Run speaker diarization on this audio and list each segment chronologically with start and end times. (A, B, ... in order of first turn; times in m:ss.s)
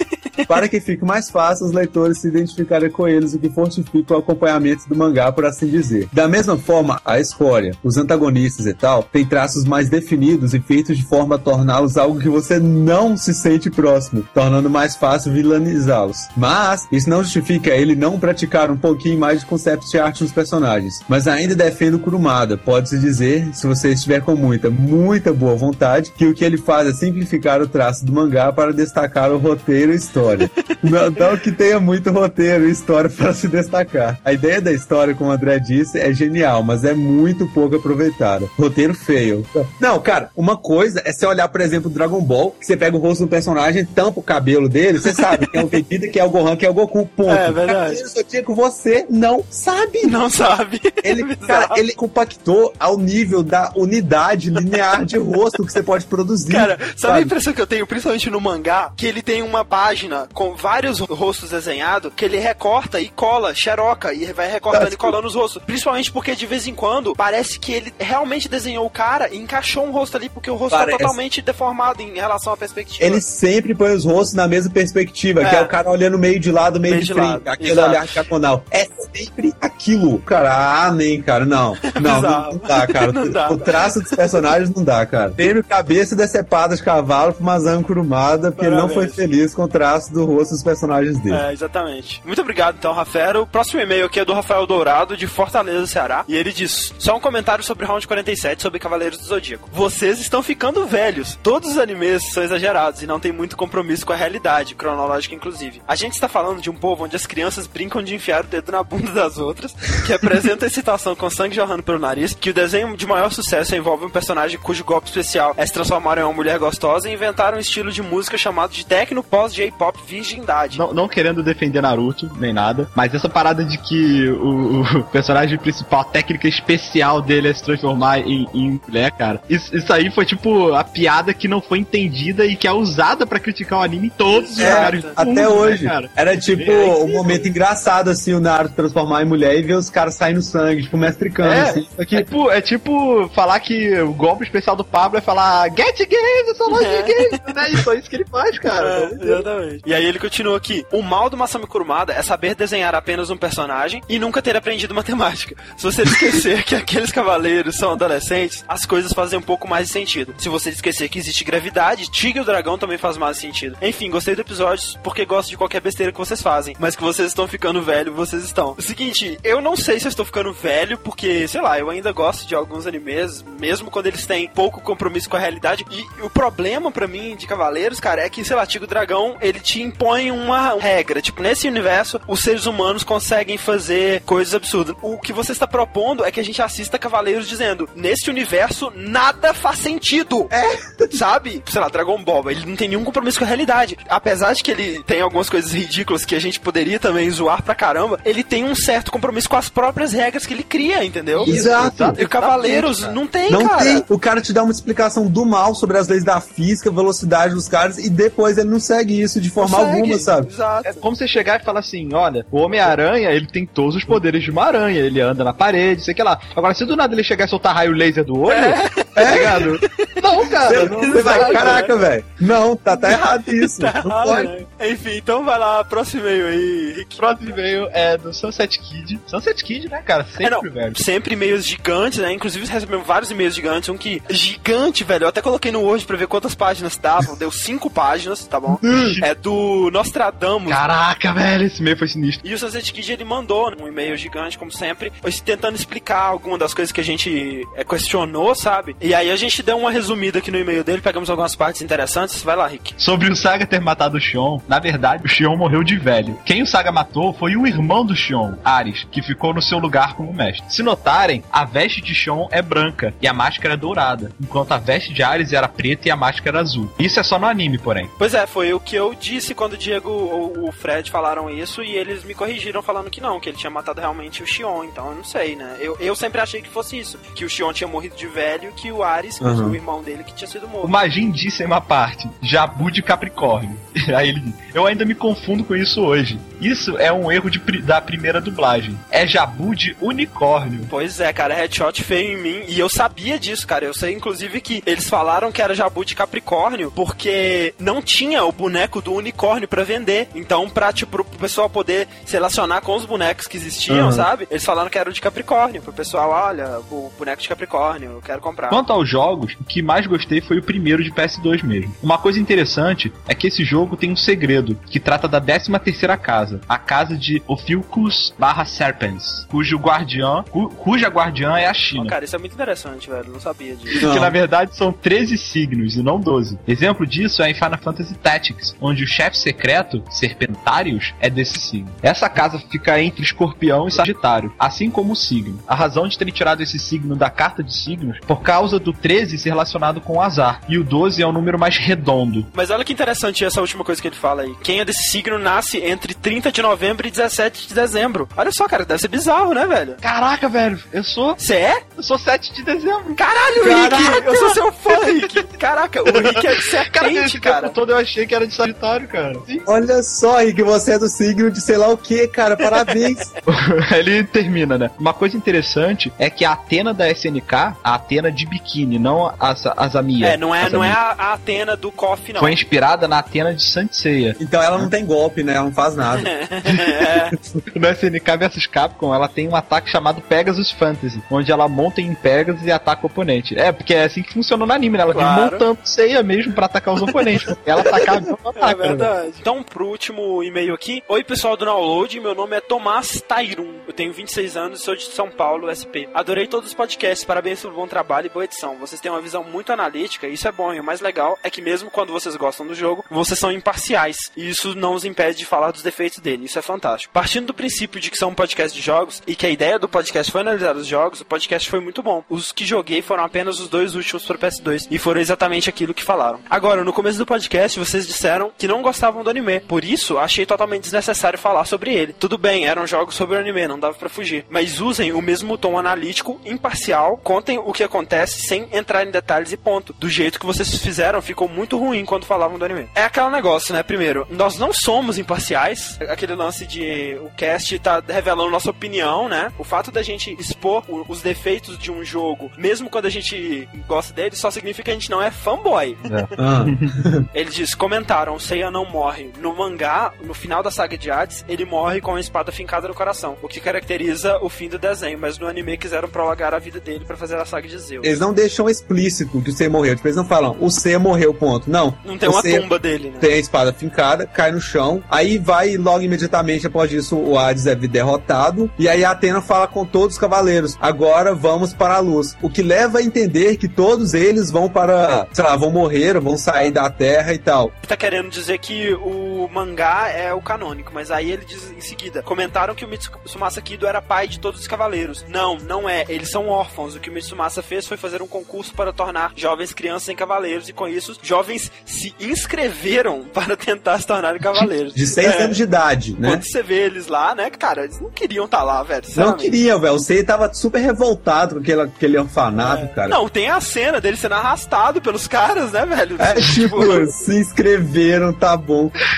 0:00.5-0:50.2 A
0:47.3-0:48.0 B
0:50.0-0:51.8 B
0:51.0-0:57.3 A
0:56.5-1:13.2 B
1:04.7-1:05.1 A
1:10.7-1:11.2 A
1:13.0-1:31.4 A
1:15.4-1:15.7 B
1:16.9-1:18.3 B
1:22.0-1:24.2 B
1:28.6-1:29.2 B
1:31.3-2:00.8 B
2:00.7-2:17.4 C
2:14.3-2:15.2 B
2:14.6-2:22.0 A
2:21.4-2:21.8 B
2:21.9-2:29.4 C
2:26.7-2:27.4 B
2:28.8-3:10.5 B
3:11.1-3:21.6 B
3:21.4-3:23.2 C
3:21.4-3:22.2 A
3:22.1-3:24.0 B
3:23.5-3:30.5 A
3:29.6-3:31.0 B
3:30.8-3:41.9 C
3:38.5-3:42.0 B
3:39.2-3:39.6 A
3:40.6-3:44.5 A
3:43.0-3:47.2 B
3:47.2-3:51.0 C
3:50.4-4:00.8 B
3:58.7-3:59.2 C
4:00.7-4:02.4 C
4:02.4-4:13.0 B
4:13.0-4:28.1 C
4:28.2-4:41.0 B
4:39.4-4:39.8 A
4:40.8-4:50.9 C
4:50.9-5:08.8 B
5:03.9-5:04.3 C
5:08.7-5:22.2 C
5:21.9-5:24.0 B
5:24.0-5:42.5 C
5:24.0-5:24.3 A
5:42.5-5:50.0 B
5:50.0-5:51.4 C
5:51.4-5:51.8 B
5:52.0-5:54.5 C
5:53.2-5:57.8 B
5:53.6-5:54.0 A
5:56.1-5:59.6 C
5:59.6-6:03.2 A
6:02.7-6:03.0 B
6:03.5-6:11.0 C
6:10.2-6:12.6 B
6:12.4-6:14.9 C
6:14.4-6:16.3 A
6:16.2-6:17.3 B
6:17.7-6:29.1 C
6:25.1-6:25.6 B
6:28.6-7:26.2 B
7:26.1-7:26.9 C
7:26.4-7:27.2 A
7:27.3-7:38.2 B
7:38.0-7:57.7 A
7:42.0-7:43.4 B
7:57.8-8:15.6 B
8:14.9-8:16.4 A
8:16.2-8:19.6 B
8:19.1-8:23.2 A
8:22.6-8:27.1 B
8:26.2-8:29.0 A